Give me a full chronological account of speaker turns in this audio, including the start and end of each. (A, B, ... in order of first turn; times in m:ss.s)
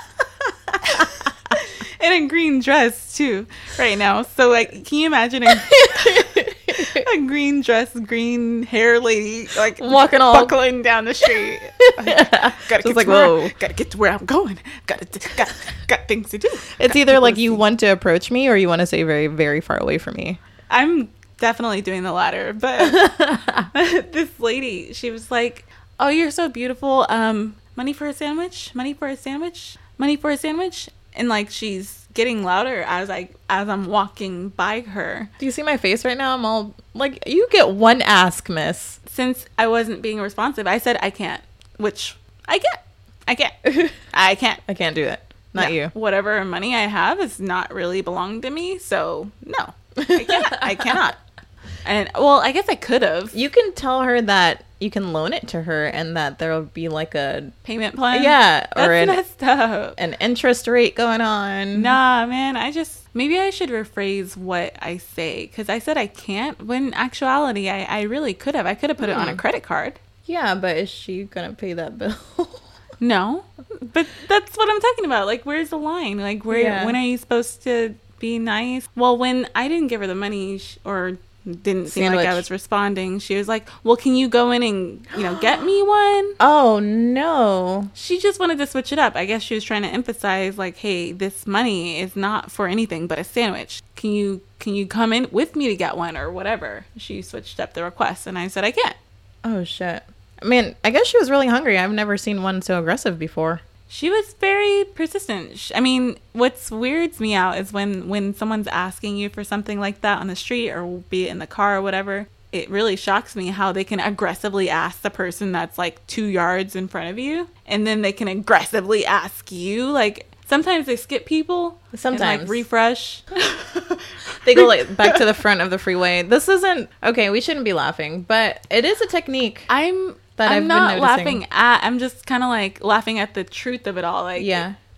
0:00.8-0:17.6 A
0:05.5-0:07.1 B
0:09.8-0:10.6 B
0:11.2-0:13.5 B
0:16.8-0:20.4 B
0:20.7-0:35.3 A
0:22.8-0:23.7 B
0:35.4-0:39.0 B
0:39.1-0:44.6 A
0:44.7-0:45.9 B
0:45.6-0:51.2 A
0:50.0-0:51.1 B
0:51.8-0:53.4 A
0:53.3-0:57.5 B
0:57.6-1:00.0 A
0:58.1-0:59.2 B
1:00.0-1:02.0 B
1:01.7-1:10.0 A
1:09.0-1:09.4 B
1:10.2-1:12.7 B
1:13.0-1:26.4 A
1:16.5-1:17.0 B
1:21.9-1:22.4 B
1:26.4-1:27.9 B
1:28.0-1:39.0 A
1:39.4-1:43.6 B
1:43.9-2:05.2 A
2:01.9-2:02.6 B
2:04.4-2:09.7 B
2:09.7-2:14.6 A
2:10.4-2:11.4 B
2:14.4-2:14.8 B